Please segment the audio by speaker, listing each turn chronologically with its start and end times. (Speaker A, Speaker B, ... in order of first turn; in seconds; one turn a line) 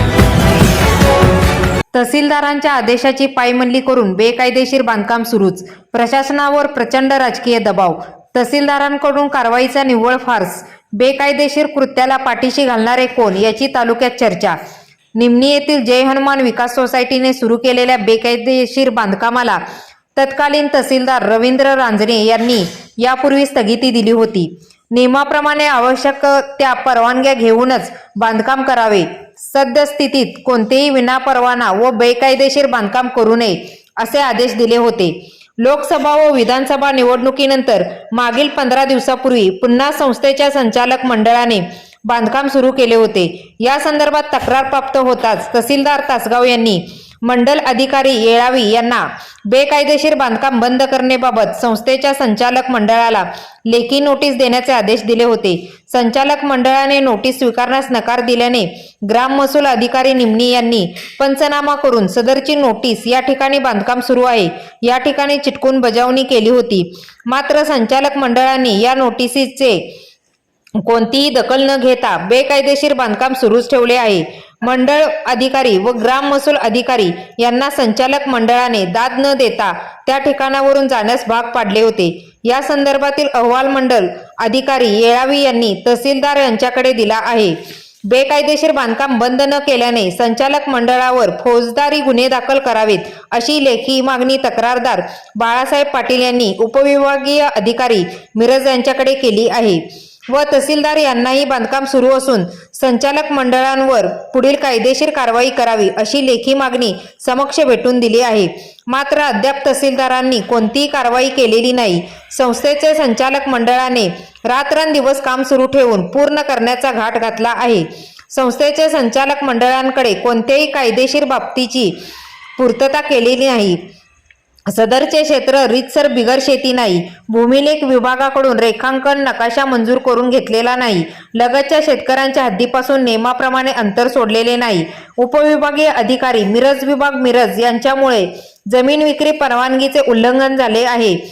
Speaker A: 1.9-14.6
Speaker A: 15.2-19.6
Speaker A: 20.1-69.8
Speaker A: 70.8-87.6
Speaker A: 88.1-122.0
Speaker A: 122.6-123.8
Speaker A: 124.7-141.2